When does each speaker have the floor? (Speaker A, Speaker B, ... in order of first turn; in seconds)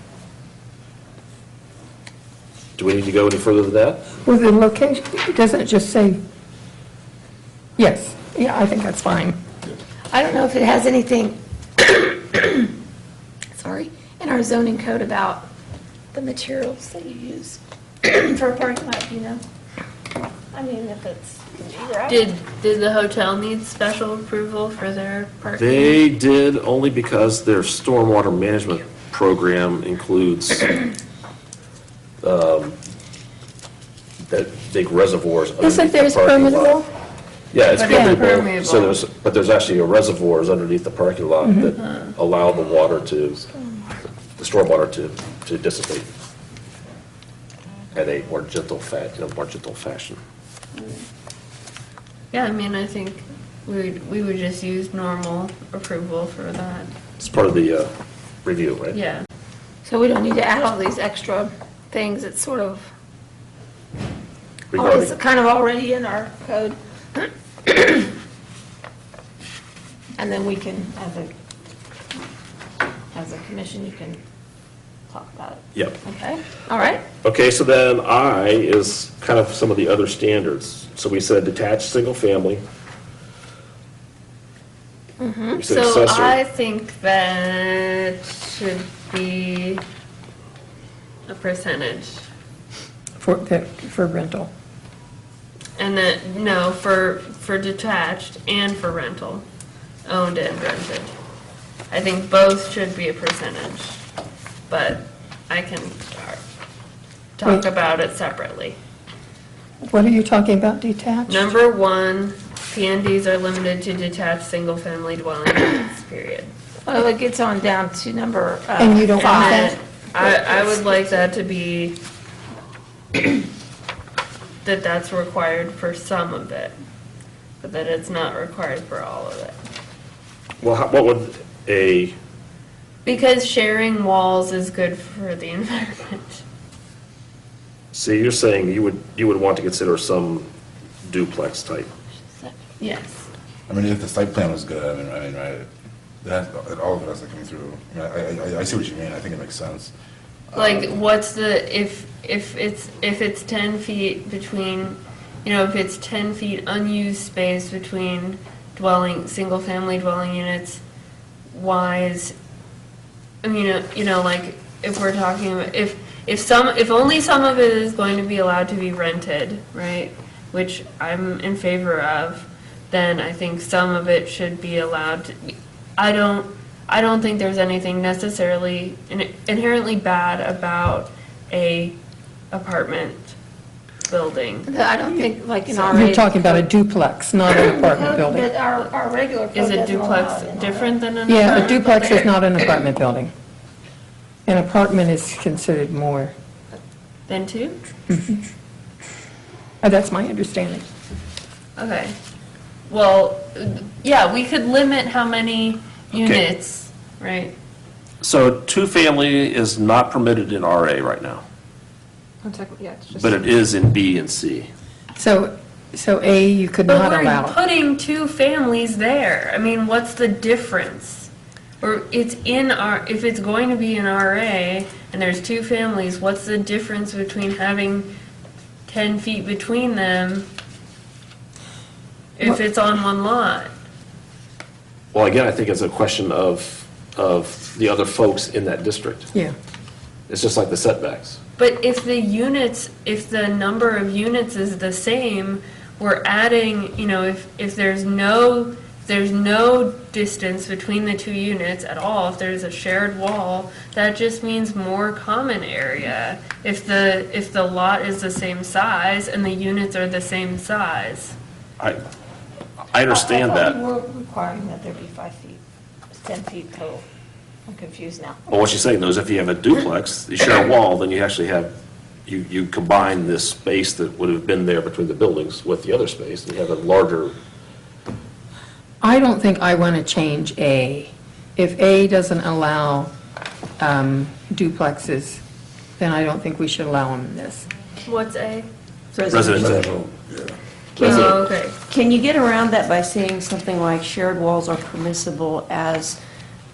Speaker A: 2.8-4.0, 25.6-30.9, 32.2-32.8, 34.3-36.8, 37.5-43.5, 44.4-46.1, 47.9-50.2, 57.2-57.9, 58.4-59.0, 64.7-65.1, 77.2-82.6, 85.5-86.4, 130.6-132.1, 137.9-140.5, 141.0-141.9, 206.1-206.4, 208.2-211.4, 213.1-214.7, 235.1-239.3, 240.3-241.4, 262.9-263.8, 268.5-271.7, 272.2-277.4, 289.2-289.9, 291.0-291.4
Speaker B: 4.2-6.2, 7.8-9.4, 35.6-36.9, 37.9-38.2, 41.4-41.7, 93.2-94.5, 109.9-111.5, 118.8-119.8, 185.8-188.5, 191.3-193.3, 194.4-196.3, 199.8-200.8, 215.2-217.6, 279.0-283.1, 283.8-285.4, 286.0-287.7
Speaker C: 10.1-12.7, 13.6-15.5, 16.1-19.4, 20.5-22.3, 59.8-62.9, 64.7-68.1, 70.2-71.3, 73.1-74.2, 75.1-77.0, 85.2-85.6, 116.8-120.5, 184.7-186.7, 187.5-192.1, 263.1-265.6, 266.1-267.0, 267.7-268.4
Speaker D: 22.1-26.0, 37.7-39.0, 41.8-42.1, 50.7-51.0, 52.3-56.9, 58.9-59.2, 85.7-89.8, 91.3-92.3, 95.8-99.4, 100.0-101.1, 101.9-104.0, 104.7-106.4, 107.4-108.8, 111.3-116.5, 119.2-122.0, 124.6-126.7, 127.6-129.6, 133.0-136.4, 142.4-143.3, 150.5-160.8, 161.5-162.3, 163.4-182.0, 182.5-183.3, 184.1-184.7, 189.5-192.2, 197.3-197.8, 201.8-202.1, 202.9-207.5, 216.9-228.1, 228.9-230.5, 232.4-233.7, 241.6-261.4, 288.0-288.7, 291.0-291.8
Speaker E: 143.7-145.7, 146.2-149.9, 150.5-150.9, 289.6-290.5
Speaker F: 289.1-289.9, 290.9-296.2